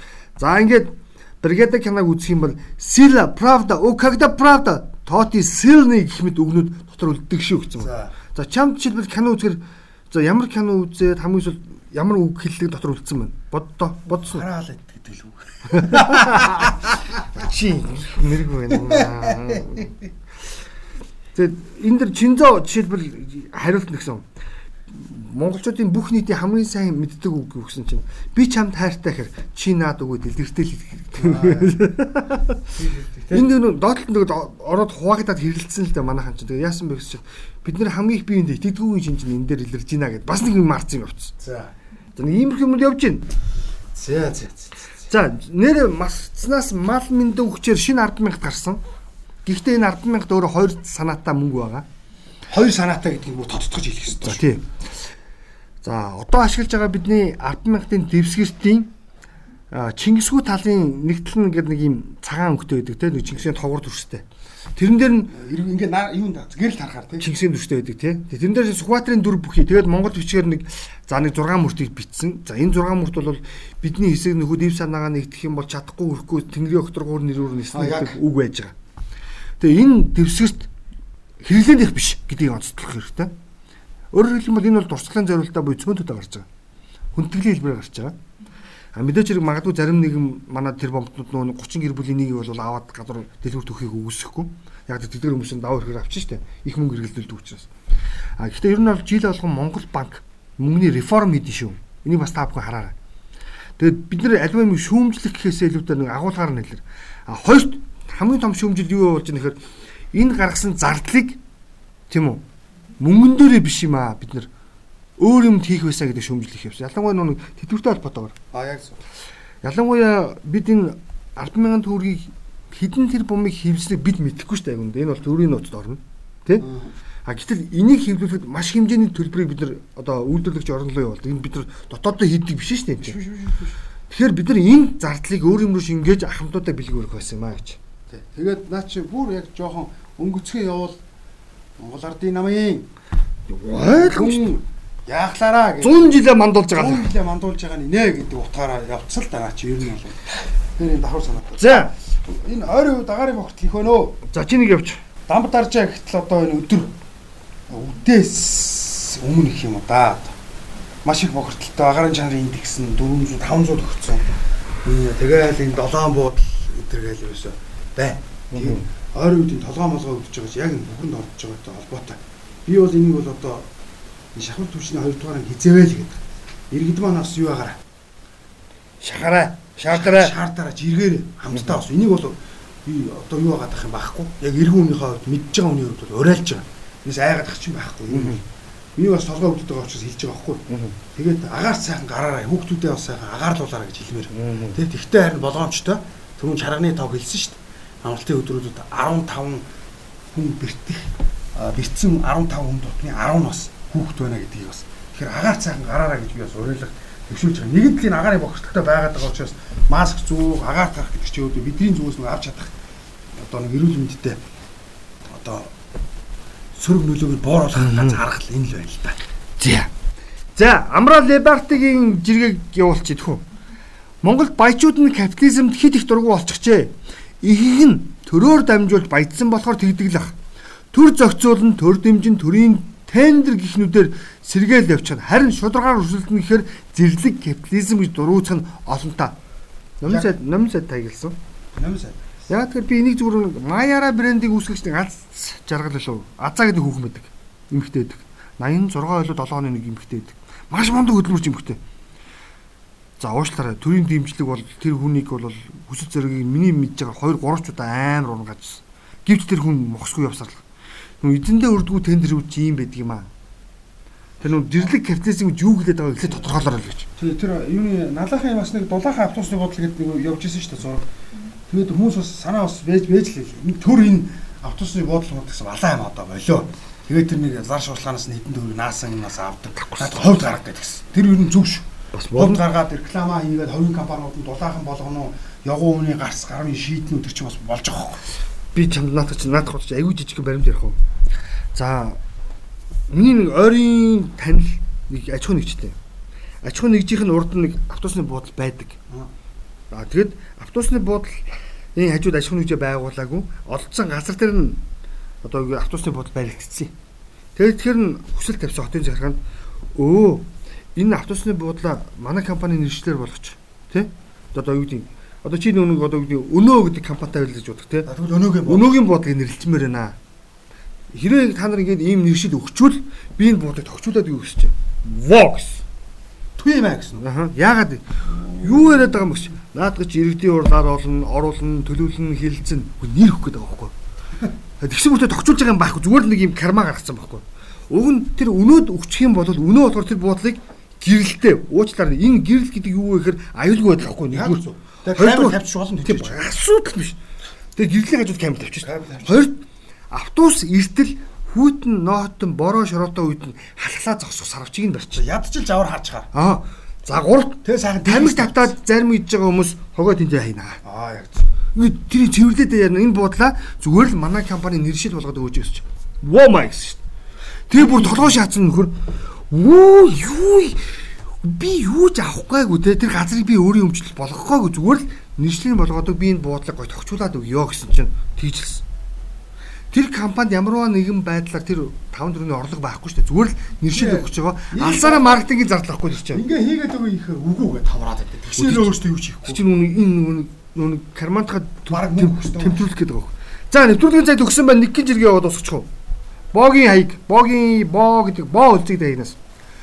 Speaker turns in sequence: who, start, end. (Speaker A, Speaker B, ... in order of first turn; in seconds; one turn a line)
Speaker A: 0.4-14.4
Speaker B: 7.8-8.1
Speaker B: 14.1-16.8
Speaker A: 15.7-19.9
Speaker B: 18.7-19.9
Speaker A: 21.3-24.2
Speaker A: 24.9-32.6
Speaker B: 31.2-31.8
Speaker B: 32.7-33.5
Speaker A: 33.3-41.3
Speaker B: 41.4-41.7
Speaker A: 42.1-43.2
Speaker B: 43.9-44.8
Speaker A: 45.1-48.8
Speaker A: 49.4-51.9
Speaker B: 52.5-54.4
Speaker A: 54.2-54.7
Speaker A: 55.8-58.9
Speaker A: 59.7-64.2
Speaker A: 64.8-65.3
Speaker B: 65.3-67.3
Speaker A: 67.2-78.7
Speaker B: 77.7-78.2
Speaker A: 79.6-80.7
Speaker A: 81.4-83.3
Speaker A: 84.1-86.5
Speaker A: 87.1-88.1
Speaker A: 88.9-97.7
Speaker A: 98.4-102.9
Speaker A: 103.8-109.6
Speaker A: 110.1-111.4
Speaker A: 112.1-112.4
Speaker A: 113.0-114.5
Speaker A: 115.2-118.3
Speaker B: 118.5-119.0
Speaker A: 119.6-126.7
Speaker B: 126.6-126.9
Speaker A: 127.2-133.2
Speaker B: 133.0-133.8
Speaker A: 134.1-137.8
Speaker B: 138.1-141.0
Speaker B: 141.8-142.9
Speaker A: 143.5-144.5
Speaker B: 143.8-146.2
Speaker A: 145.8-147.1
Speaker B: 146.7-154.2
Speaker A: 151.6-151.9
Speaker A: 154.3-155.0
Speaker B: 155.3-156.9
Speaker B: 157.7-160.3
Speaker B: 161.0-164.3
Speaker B: 164.8-173.7
Speaker A: 168.5-168.8
Speaker B: 174.3-177.8
Speaker A: 179.0-180.3
Speaker B: 179.9-188.4
Speaker A: 188.1-188.4
Speaker B: 188.9-199.6
Speaker A: 190.7-190.9
Speaker A: 194.3-194.8
Speaker B: 200.3-212.7
Speaker B: 213.4-214.4
Speaker B: 215.3-215.7
Speaker B: 216.8-219.2
Speaker A: 217.8-218.2
Speaker A: 219.6-219.9
Speaker A: 220.6-223.4
Speaker A: 224.2-230.3
Speaker A: 230.9-239.4
Speaker A: 240.0-241.3
Speaker B: 240.0-240.3
Speaker B: 241.7-242.3
Speaker A: 242.5-251.8
Speaker A: 253.2-260.6
Speaker A: 261.2-263.3
Speaker A: 264.4-267.1
Speaker B: 267.2-271.0
Speaker B: 271.7-288.2
Speaker A: 279.8-280.3
Speaker A: 282.1-282.6
Speaker A: 288.7-291.0
Speaker A: 291.7-292.2
Speaker A: 293.1-295.9
Speaker A: 296.6-299.0
Speaker A: 299.9-304.8
Speaker A: 305.4-306.9
Speaker A: 307.5-309.4
Speaker A: 309.9-318.1
Speaker B: 318.1-318.9
Speaker A: 318.6-320.1
Speaker A: 321.1-325.8
Speaker B: 326.6-327.2
Speaker A: 327.2-333.9
Speaker A: 334.8-347.2
Speaker B: 344.3-346.4
Speaker A: 347.8-355.2
Speaker B: 348.8-349.5
Speaker B: 355.1-356.3
Speaker A: 356.3-360.8
Speaker B: 357.6-358.7
Speaker B: 360.8-361.4
Speaker A: 361.7-367.0
Speaker A: 367.7-378.8
Speaker B: 367.8-368.3
Speaker A: 379.9-386.4
Speaker B: 383.9-385.4
Speaker B: 386.3-389.6
Speaker A: 388.6-395.9
Speaker B: 391.9-392.9
Speaker A: 396.5-399.4